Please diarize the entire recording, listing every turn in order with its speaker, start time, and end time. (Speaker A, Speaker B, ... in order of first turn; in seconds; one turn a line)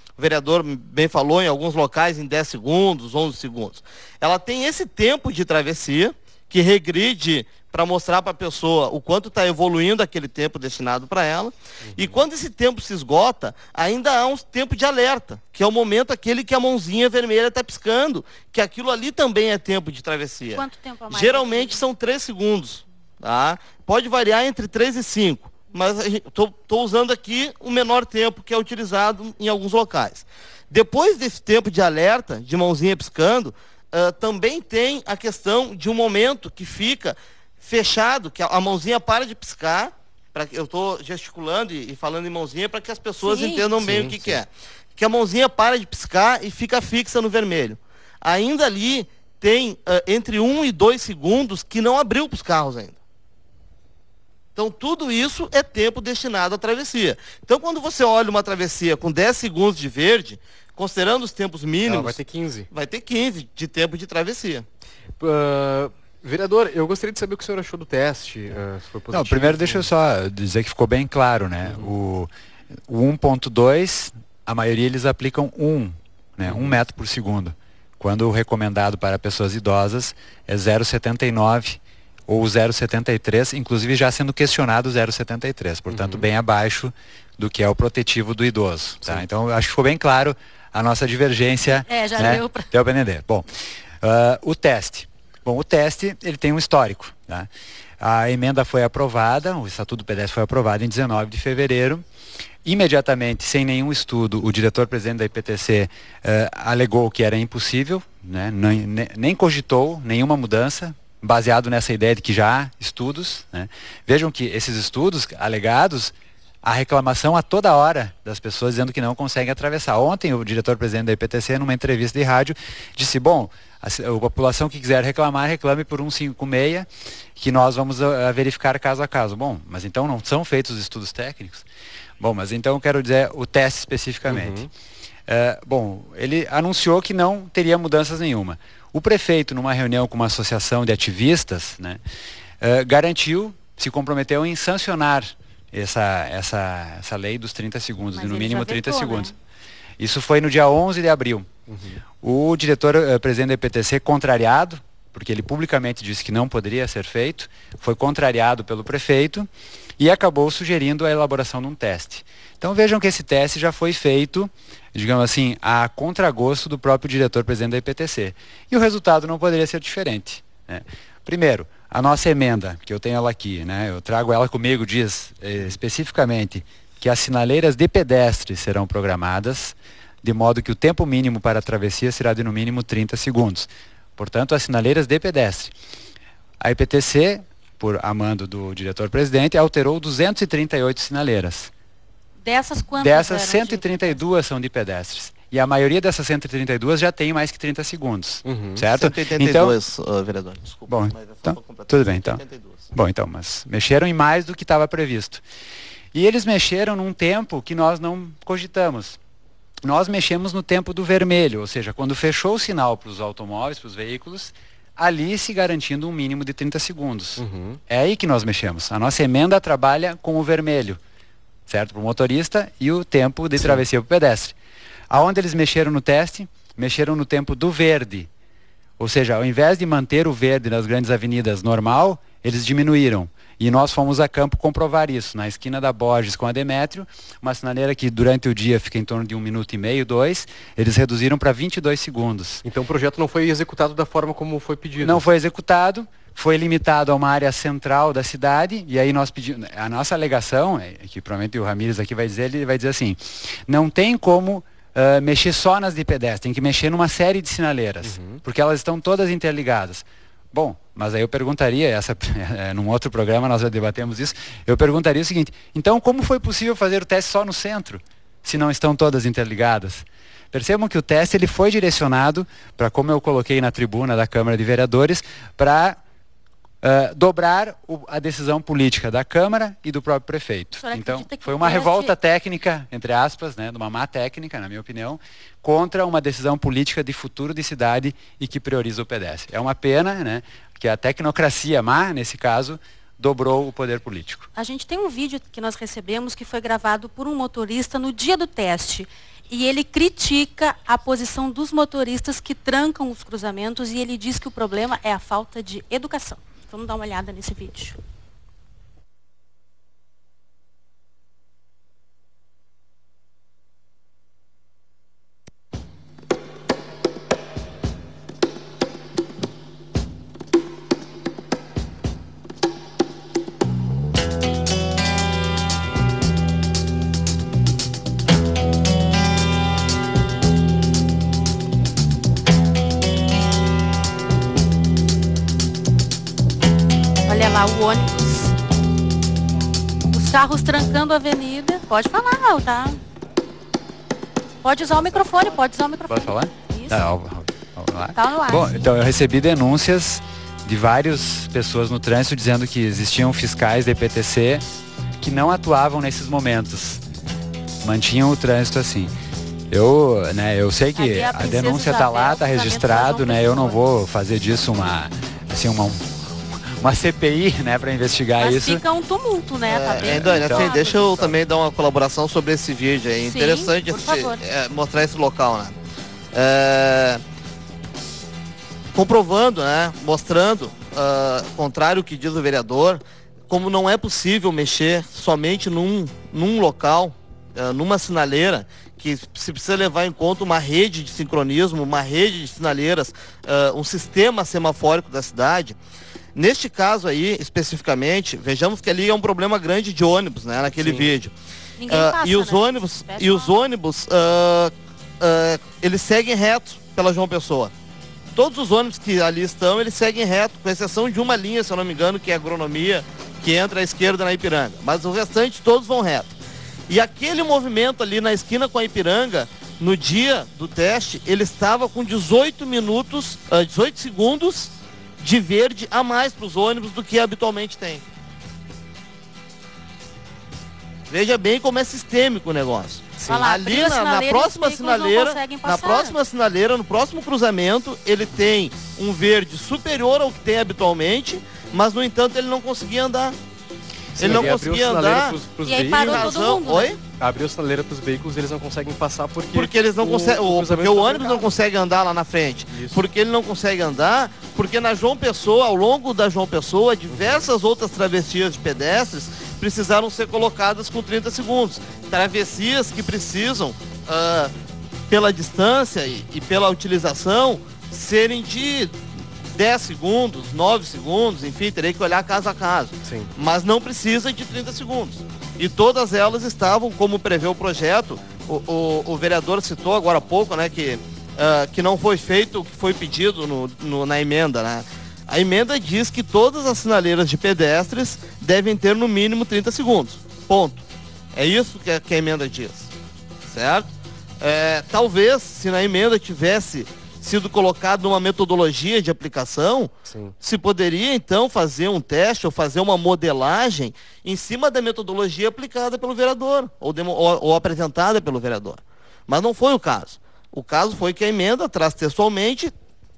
Speaker A: 0.2-53.0
Speaker B: 11.8-12.2
Speaker C: 20.5-21.8
Speaker C: 43.2-43.7
Speaker B: 43.8-44.4
Speaker A: 54.6-62.2
Speaker B: 61.9-62.7
Speaker A: 62.7-64.7
Speaker B: 65.2-69.9
Speaker D: 69.1-72.3
Speaker B: 71.7-71.9
Speaker D: 72.9-93.5
Speaker B: 76.5-76.8
Speaker B: 85.9-86.2
Speaker C: 91.7-92.7
Speaker D: 94.0-97.5
Speaker D: 98.0-102.0
Speaker D: 102.6-131.7
Speaker D: 132.2-134.7
Speaker B: 134.3-134.7
Speaker D: 135.3-142.0
Speaker D: 142.6-149.3
Speaker C: 148.2-149.3
Speaker D: 150.0-151.5
Speaker B: 151.7-152.0
Speaker D: 152.2-185.7
Speaker D: 186.6-191.7
Speaker C: 192.4-194.2
Speaker D: 193.0-199.8
Speaker B: 198.4-198.8
Speaker A: 198.9-202.9
Speaker D: 200.9-202.4
Speaker D: 202.9-205.4
Speaker D: 206.1-209.2
Speaker D: 209.8-221.0
Speaker B: 217.4-217.8
Speaker D: 221.7-224.6
Speaker D: 225.1-228.3
Speaker D: 229.0-242.6
Speaker B: 242.6-245.2
Speaker D: 245.0-276.0
Speaker B: 258.0-258.4
Speaker D: 276.8-294.5
Speaker C: 280.8-282.1
Speaker C: 294.6-308.0
Speaker C: 337.3-338.6
Speaker C: 340.1-343.0
Speaker C: 344.6-347.0
Speaker D: 346.1-354.6
Speaker C: 348.1-348.8
Speaker D: 355.2-357.0
Speaker D: 357.8-359.1
Speaker D: 359.7-368.8
Speaker C: 360.9-363.8
Speaker C: 368.4-371.4
Speaker A: 369.6-375.8
Speaker D: 370.0-370.7
Speaker C: 373.2-374.4
Speaker A: 376.3-377.2
Speaker A: 378.9-395.8
Speaker A: 396.4-401.3
Speaker B: 400.8-401.1
Speaker C: 401.8-403.6
Speaker A: 401.9-407.7
Speaker A: 408.4-416.4
Speaker A: 416.9-428.0
Speaker A: 431.1-443.4
Speaker C: 433.2-436.2
Speaker B: 444.2-446.4
Speaker A: 444.2-445.4
Speaker C: 445.7-447.0
Speaker A: 445.9-447.0
Speaker B: 447.2-451.5
Speaker A: 449.5-464.5
Speaker B: 452.7-453.0
Speaker B: 457.1-457.4
Speaker A: 465.1-469.0
Speaker A: 469.5-490.8
Speaker A: 491.3-492.9
Speaker A: 493.5-493.9
Speaker A: 494.4-512.7
Speaker B: 500.1-500.4